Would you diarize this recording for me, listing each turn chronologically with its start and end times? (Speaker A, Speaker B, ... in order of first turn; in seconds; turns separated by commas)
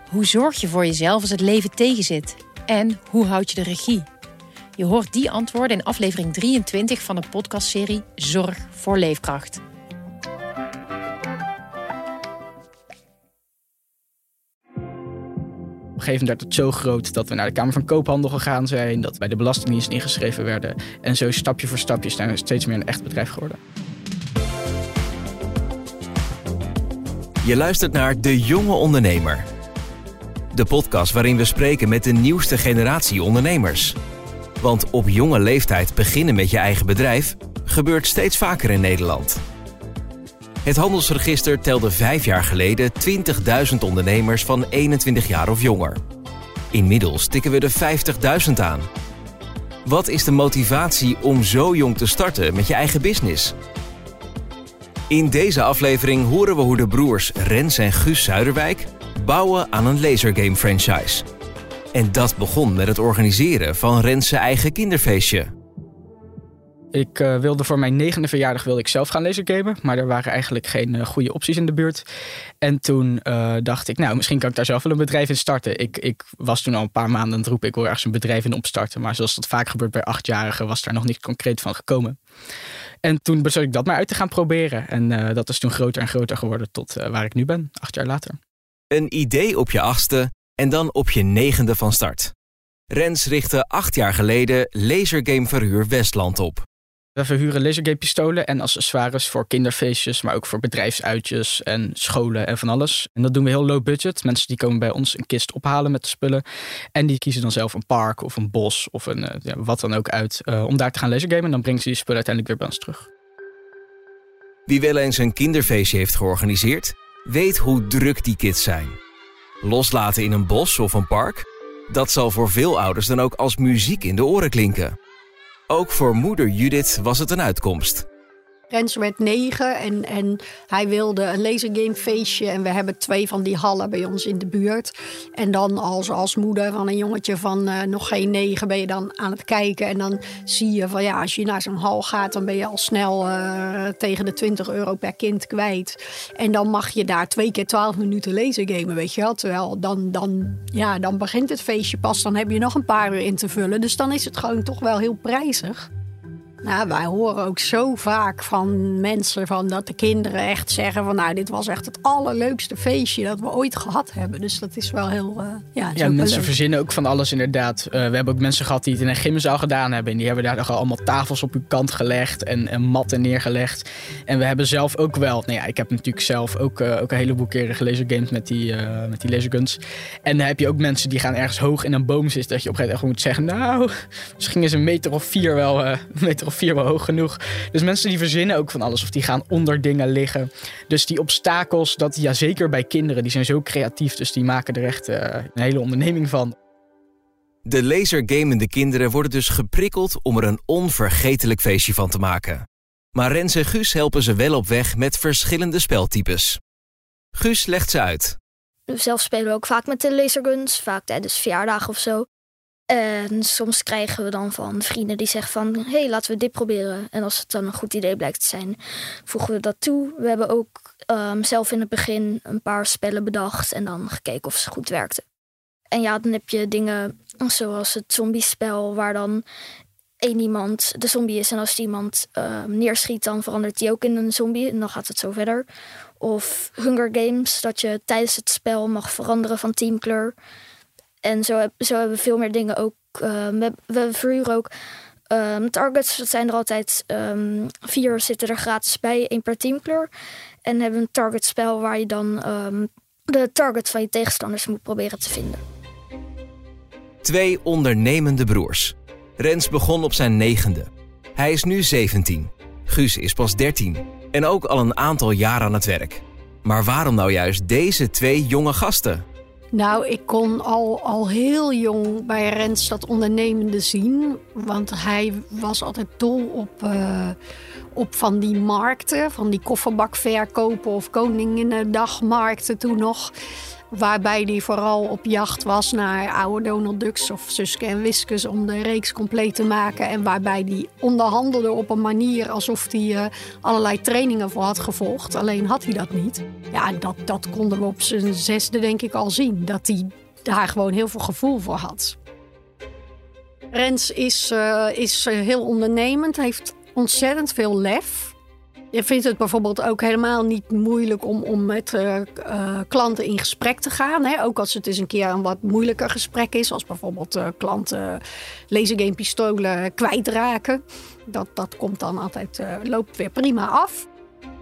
Speaker A: 0.1-4.0, Speaker A: 4.8-9.6, Speaker B: 16.0-23.6, Speaker C: 27.4-29.4, Speaker C: 30.5-34.0, Speaker C: 34.6-39.4, Speaker C: 40.6-46.0, Speaker C: 46.7-48.8, Speaker C: 49.9-53.5, Speaker C: 55.1-61.2, Speaker C: 62.0-65.5, Speaker B: 66.9-72.0, Speaker B: 72.6-82.2, Speaker B: 83.0-88.4, Speaker C: 88.9-92.3, Speaker C: 92.9-96.6, Speaker B: 97.2-106.4, Speaker B: 106.9-113.1, Speaker C: 114.7-119.0, Speaker C: 119.6-124.9, Speaker C: 125.7-128.1, Speaker D: 128.7-155.9, Speaker D: 156.6-166.5, Speaker B: 165.9-196.5, Speaker C: 197.7-202.6, Speaker C: 203.2-206.6, Speaker C: 207.3-208.3, Speaker E: 208.9-212.2, Speaker E: 212.9-225.2, Speaker E: 225.9-229.4, Speaker E: 230.2-235.7, Speaker E: 236.2-240.3, Speaker E: 241.2-244.7, Speaker E: 245.3-250.1, Speaker E: 250.7-255.6, Speaker C: 257.2-269.2, Speaker D: 269.7-277.4, Speaker D: 277.9-283.3, Speaker D: 283.9-302.2, Speaker D: 303.7-308.3, Speaker D: 308.9-324.1